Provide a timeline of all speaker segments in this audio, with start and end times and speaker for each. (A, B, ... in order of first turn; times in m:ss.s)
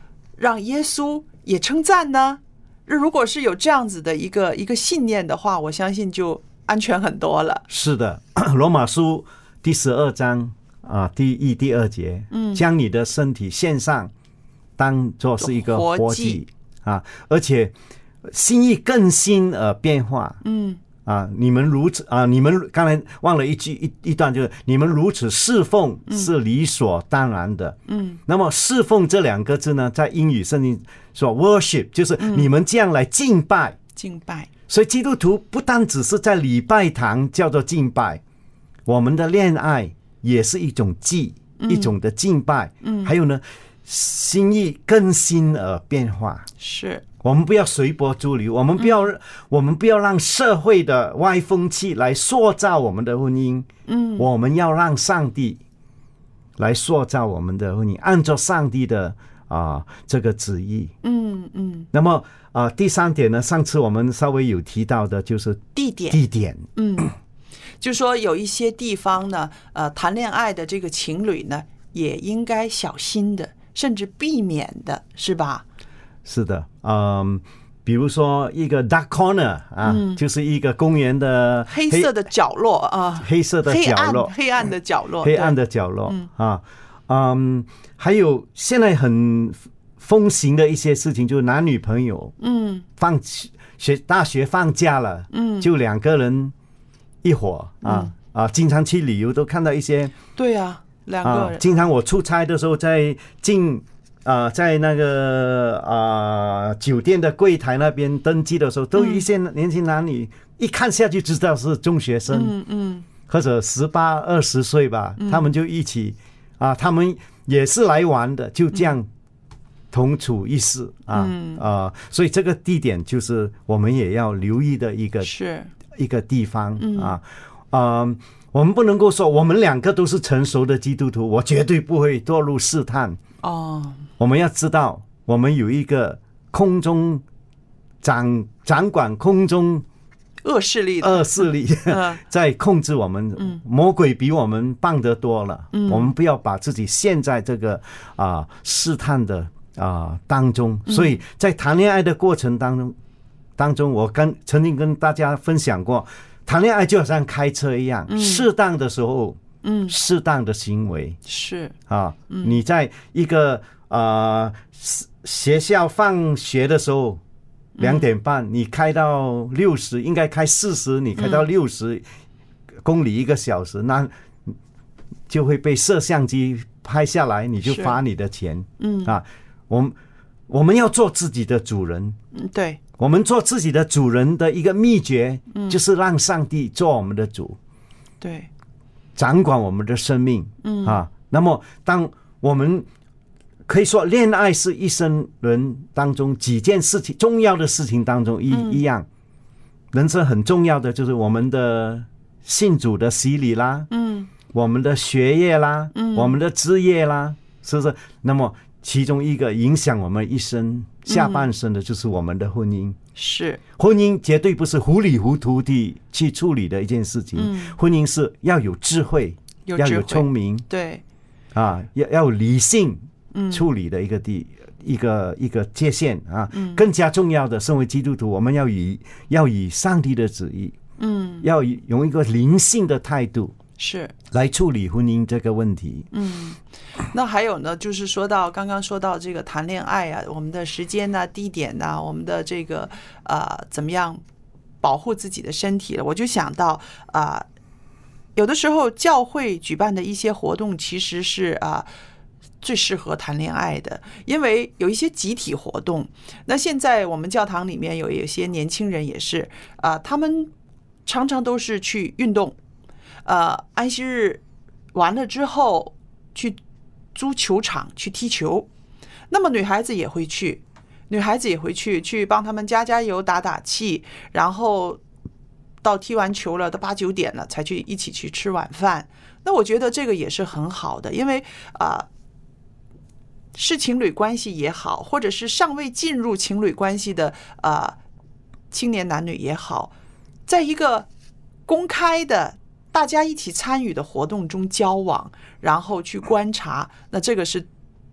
0:00.4-0:07.6 A
0:07.7-0:14.1 B
0:12.3-0:12.6 A
0:14.8-0:17.7 B
0:15.4-0:16.4 A
0:18.3-0:20.4 B
0:20.4-0:20.8 A
0:21.0-0:33.8 B
0:27.9-0:28.2 A
0:32.2-0:32.5 A
0:34.0-0:34.5 A
0:34.7-0:38.2 B
0:38.9-0:46.5 B
0:41.6-0:42.0 A
0:42.8-0:43.1 A
0:46.6-0:47.0 A
0:47.2-0:55.6 B
0:48.8-0:49.1 A
0:53.9-0:54.3 A
0:56.6-1:00.9 B
1:01.0-1:01.9 A
1:01.9-1:06.7 B
1:05.8-1:06.2 A
1:06.8-1:07.2 A
1:07.8-1:15.6 A
1:16.2-1:22.1 B
1:19.8-1:20.2 A
1:21.7-1:26.3 A
1:23.2-1:24.3 B
1:25.2-1:32.3 B
1:32.4-1:32.9 A
1:33.0-1:36.5 B
1:35.3-1:35.7 A
1:37.2-1:40.2 B
1:37.8-1:38.1 A
1:40.4-1:41.7 A
1:41.2-1:52.6 B
1:49.0-1:49.3 A
1:52.3-1:53.1 A
1:53.3-1:59.1 B
1:55.2-1:55.5 A
1:59.9-2:05.3 B
2:01.1-2:01.6 A
2:05.2-2:05.7 A
2:05.9-2:13.2 B
2:06.8-2:07.2 A
2:13.4-2:14.1 A
2:14.2-2:17.2 B
2:18.0-2:19.8 B
2:20.4-2:22.2 A
2:21.0-2:33.0 B
2:25.7-2:26.1 A
2:30.9-2:31.2 A
2:33.6-2:41.2 B
2:38.1-2:38.5 A
2:39.6-2:40.0 A
2:41.3-2:41.8 A
2:41.9-2:47.2 B
2:42.3-2:42.6 A
2:47.8-2:48.1 A
2:47.8-2:52.0 B
2:51.2-2:51.5 A
2:52.8-2:54.5 B
2:55.3-3:00.0 B
2:57.6-2:58.0 A
2:58.8-2:59.2 A
3:00.5-3:02.2 B
3:02.3-3:02.8 A
3:03.0-3:07.6 B
3:05.5-3:05.8 A
3:08.2-3:08.5 A
3:09.2-3:12.9 B
3:10.6-3:11.0 A
3:13.7-3:19.1 B
3:18.5-3:18.8 A
3:19.9-3:23.9 B
3:23.9-3:24.3 A
3:24.5-3:33.0 B
3:25.9-3:26.4 A
3:31.1-3:31.5 A
3:33.2-3:33.6 A
3:33.8-3:40.6 B
3:37.4-3:37.8 A
3:39.7-3:41.0 A
3:41.5-3:50.8 B
3:43.3-3:43.7 A
3:46.5-3:46.8 A
3:51.0-3:51.5 A
3:51.4-3:53.6 B
3:53.8-3:54.1 A
3:54.3-3:56.1 B
3:56.1-3:56.6 A
3:57.1-4:04.2 A
4:04.8-4:07.4 A
4:08.4-4:11.9 A
4:12.6-4:20.5 A
4:21.1-4:22.6 A
4:23.2-4:24.4 A
4:24.9-4:26.6 A
4:27.2-4:28.7 A
4:29.3-4:35.0 A
4:35.8-4:42.1 A
4:43.6-4:48.0 A
4:48.7-4:49.9 A
4:50.5-4:51.1 A
4:51.7-4:57.7 A